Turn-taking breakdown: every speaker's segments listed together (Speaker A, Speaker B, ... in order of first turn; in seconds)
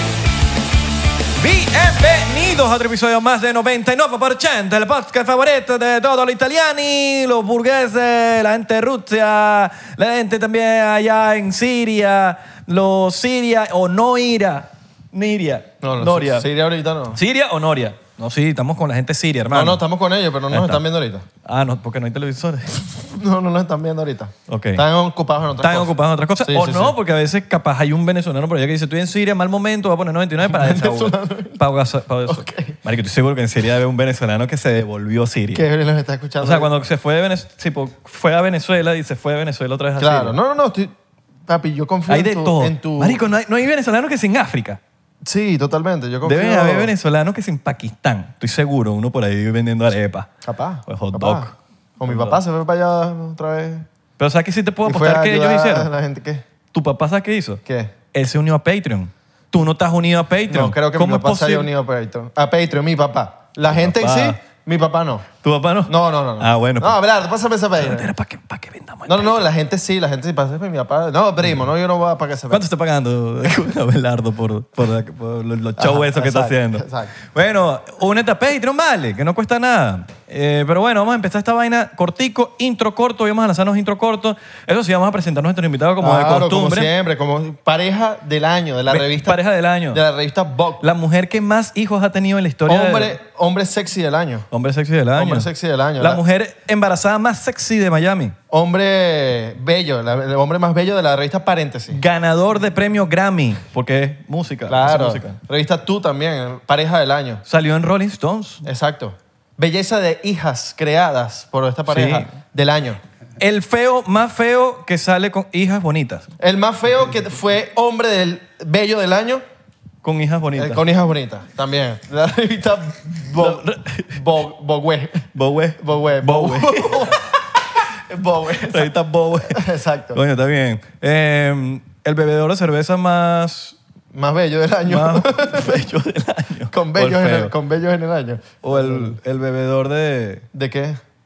Speaker A: 1.4-16.5, 17.1-19.8, 20.5-20.8, 21.4-22.8, 24.5-24.8, 25.6-35.6, 36.4-40.4, 42.1-44.8, 46.2-50.3, 50.9-52.4, 54.2-55.9, 56.7-57.6, 58.1-61.7, 63.7-64.3, 65.4-67.0, 67.8-69.4, 72.5-86.9, 88.9-90.0, 90.8-93.2, 94.5-98.3, 101.9-105.4, 107.5-108.6, 111.9-112.3, 113.4-116.3, 120.0-120.8, 123.3-124.2, 125.3-127.2, 128.6-133.8, 134.9-137.5, 138.6-140.4
Speaker B: 15.8-17.2, 19.5-21.2, 23.1-26.9, 30.4-31.6, 32.3-32.8, 35.5-36.7, 40.0-40.9, 41.5-43.2, 45.2-46.9, 50.4-53.9, 54.8-56.4, 57.6-57.9, 60.5-65.3, 65.9-68.1, 69.0-72.6, 75.8-77.1, 86.0-90.8, 92.7-94.5, 95.1-96.2, 98.5-102.0, 104.7-107.4, 108.6-113.0, 116.4-119.4, 120.5-125.3, 125.8-127.4, 128.1-128.9, 129.4-130.2, 134.1-135.8, 136.7-139.2, 140.5-141.0